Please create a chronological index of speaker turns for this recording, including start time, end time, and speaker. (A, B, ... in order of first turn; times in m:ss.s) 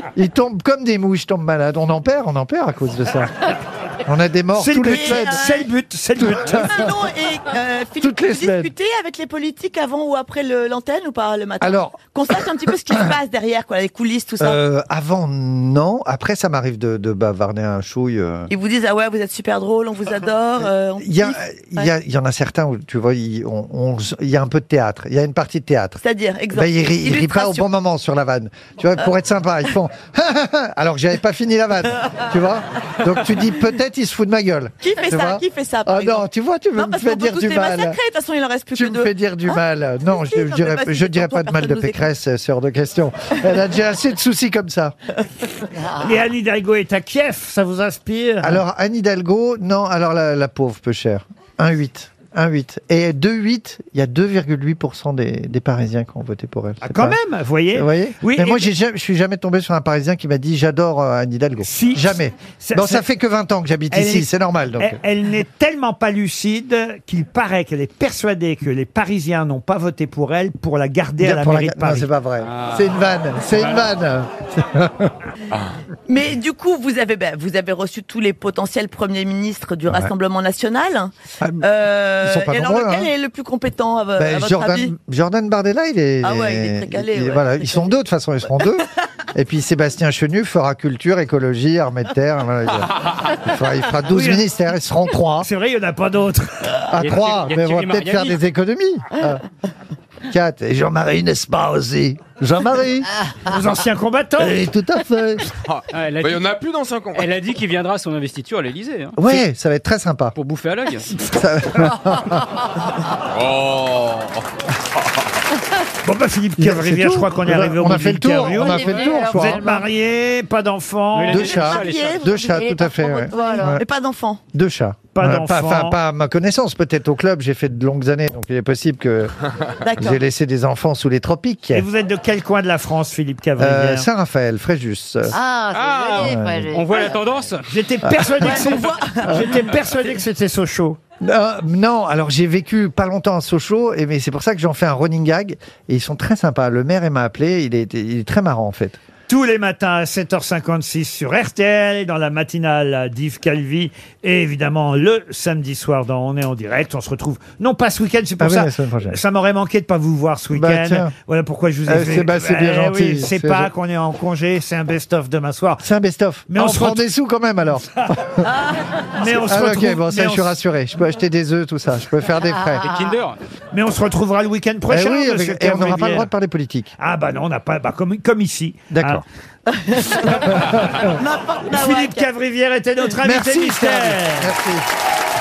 0:00.2-0:03.3 A
0:04.1-0:05.4 A
0:04.6-0:06.7 B
0:04.8-0:05.7 C
0:06.2-0:06.9 A
0:06.4-0:14.6 C
0:08.0-0:08.7 A
0:11.6-0:12.0 A
0:14.4-0:18.5 A
0:18.5-0:21.9 C
0:21.0-0:26.0 A
0:26.0-0:27.7 C
0:26.5-0:38.0 A
0:34.8-0:39.6 C
0:38.8-0:45.0 A
0:40.2-0:42.0 C
0:45.8-0:46.2 D
0:46.0-0:48.6 B
0:48.4-0:57.2 A
0:56.8-0:58.7 B
0:57.7-1:05.0 A
1:01.6-1:03.0 B
1:03.9-1:12.1 B
1:11.2-1:15.1 A
1:12.4-1:14.0 E
1:16.1-1:25.0 C
1:22.2-1:23.1 A
1:24.2-1:35.5 A
1:26.2-1:27.9 C
1:34.1-1:34.4 B
1:35.4-1:36.8 B
1:36.9-1:39.4 A
1:37.0-1:38.4 E
1:40.3-1:43.1 A
1:43.4-1:44.6 B
1:44.4-1:45.4 A
1:45.6-1:47.3 F
1:45.9-1:46.5 E
1:47.1-1:49.4 E
1:49.2-1:50.3 A
1:50.4-1:51.2 E
1:51.3-1:52.5 A
1:53.3-1:54.4 F
1:56.0-2:01.4 B
1:56.6-1:59.8 A
1:58.5-1:59.9 D
1:58.9-1:59.2 E
2:01.1-2:02.5 E
2:01.3-2:03.8 A
2:01.3-2:02.4 C
2:02.5-2:03.8 D
2:03.4-2:04.4 C
2:04.5-2:09.3 A
2:05.2-2:06.0 B
2:09.8-2:10.2 C
2:10.0-2:11.8 A
2:11.7-2:14.1 B
2:13.6-2:15.4 A
2:15.3-2:17.5 D
2:15.7-2:17.8 E
2:16.2-2:16.7 A
2:17.7-2:21.0 B
2:18.1-2:18.6 A
2:18.4-2:19.7 C
2:21.2-2:29.0 A
2:29.3-2:45.8 B
2:38.4-2:39.2 A
2:40.6-2:41.1 A
2:41.9-2:43.7 A
2:45.8-2:48.5 A
2:46.5-2:47.0 B
2:48.4-2:48.8 C
2:49.2-2:50.6 B
2:49.3-2:52.9 A
2:52.8-2:53.4 E
2:53.7-2:56.3 B
2:54.9-2:56.9 A
2:57.0-2:59.2 B
2:58.9-2:59.2 A
2:59.7-3:02.3 C
3:00.5-3:01.1 A
3:01.7-3:04.5 B
3:03.2-3:04.8 A